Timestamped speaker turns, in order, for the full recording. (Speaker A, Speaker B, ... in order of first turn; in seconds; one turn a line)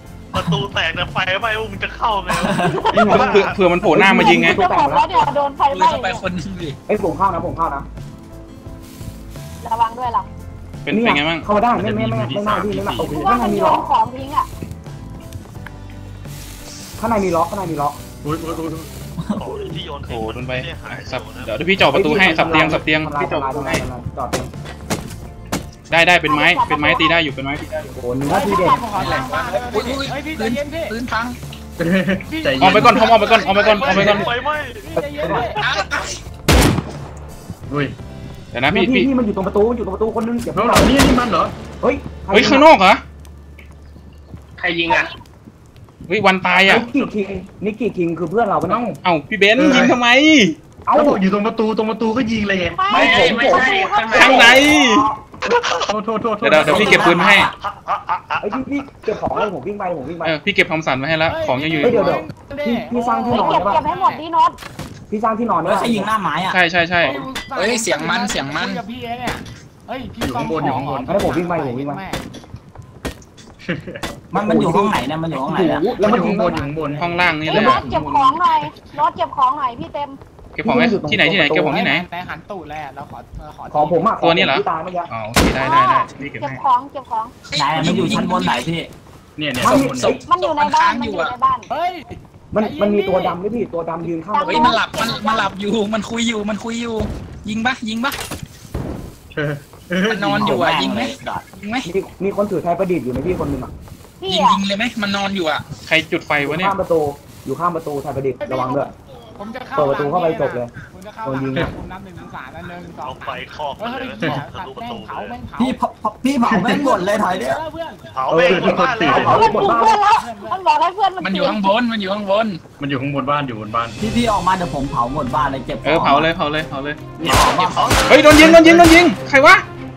Speaker A: 0.3-3.6
Speaker B: 2.4-3.0
Speaker C: 2.6-3.2
Speaker D: 2.9-5.2
Speaker E: 3.1-4.6
Speaker C: 4.2-6.2
Speaker F: 5.7-6.8
Speaker D: 6.9-7.9
Speaker C: 9.6-10.3
Speaker E: 10.8-11.4
Speaker D: 10.9-13.8
Speaker G: 11.7-13.3
Speaker C: 13.1-14.5
Speaker D: 17.0-18.0
Speaker G: 18.2-18.9
Speaker B: 19.2-19.8
Speaker A: 19.4-21.5
Speaker E: 20.1-23.9
Speaker D: 21.9-24.5
Speaker E: 25.9-27.9
Speaker C: 26.3-27.2
Speaker D: 27.9-29.1
Speaker H: 28.2-30.9
Speaker F: 28.9-31.4
Speaker G: 31.8-33.1
Speaker H: 32.2-35.6
Speaker E: 32.6-34.3
Speaker F: 33.0-34.2
Speaker A: 33.4-35.9
Speaker D: 35.0-35.5
Speaker F: 35.6-36.2
Speaker G: 37.7-37.9
Speaker E: 38.5-39.1
Speaker D: 38.7-41.0
Speaker G: 40.5-41.5
Speaker D: 41.8-42.6
Speaker E: 42.3-43.0
Speaker I: 44.6-45.1
Speaker E: 46.1-46.9
Speaker G: 46.5-47.1
Speaker D: 46.6-48.8
Speaker G: 48.7-49.0
Speaker E: 49.0-50.5
Speaker G: 49.5-50.0
Speaker D: 50.9-51.2
Speaker G: 50.9-52.9
Speaker C: 52.7-55.0
Speaker I: 52.9-54.7
Speaker D: 52.9-55.6
Speaker E: 54.1-55.0
Speaker A: 55.4-55.9
Speaker G: 55.9-57.2
Speaker E: 56.4-57.5
Speaker B: 56.6-57.5
Speaker A: 57.4-59.5
Speaker D: 58.4-60.4
Speaker E: 60.2-62.2
Speaker H: 61.2-64.2
Speaker D: 61.8-63.8
Speaker C: 63.0-64.6
Speaker D: 65.1-66.1
Speaker B: 65.6-66.6
Speaker E: 66.5-67.2
Speaker H: 67.0-72.2
Speaker F: 67.1-68.8
Speaker G: 70.2-71.3
Speaker D: 71.0-72.0
Speaker G: 73.6-74.0
Speaker B: 74.3-75.9
Speaker D: 74.4-75.0
Speaker D: 75.5-77.0
Speaker G: 75.6-77.9
Speaker E: 77.0-78.4
Speaker C: 77.4-80.2
Speaker D: 77.5-77.8
Speaker E: 80.5-82.1
Speaker D: 80.6-81.8
Speaker H: 81.7-84.2
Speaker D: 83.7-85.1
Speaker E: 84.2-86.6
Speaker C: 85.6-87.3
Speaker F: 87.5-88.7
Speaker B: 87.5-88.9
Speaker G: 87.8-88.3
Speaker G: 89.4-90.2
Speaker D: 89.6-90.2
Speaker C: 90.0-91.7
Speaker F: 90.3-91.3
Speaker H: 91.7-93.4
Speaker D: 92.5-94.8
Speaker C: 94.3-95.5
Speaker F: 94.4-98.2
Speaker G: 99.3-100.6
Speaker F: 100.0-101.9
Speaker B: 100.3-101.5
Speaker D: 101.8-103.7
Speaker C: 104.2-104.6
Speaker F: 104.3-105.6
Speaker E: 105.8-106.8
Speaker D: 106.4-108.9
Speaker H: 108.4-115.8
Speaker D: 109.7-110.7
Speaker D: 111.2-111.7
Speaker A: 113.0-115.4
Speaker G: 114.2-114.5
Speaker B: 115.6-117.6
Speaker G: 116.5-117.0
Speaker H: 116.6-118.1
Speaker A: 118.1-119.5
Speaker D: 118.3-120.0
Speaker G: 118.3-119.5
Speaker C: 119.1-121.7
Speaker H: 119.4-120.6
Speaker F: 121.2-122.6
Speaker G: 122.8-124.0
Speaker B: 124.0-126.3
Speaker E: 125.8-127.0
Speaker B: 127.2-128.2
Speaker F: 127.2-128.5
Speaker A: 127.3-128.2
Speaker E: 128.1-129.6
Speaker G: 128.3-128.9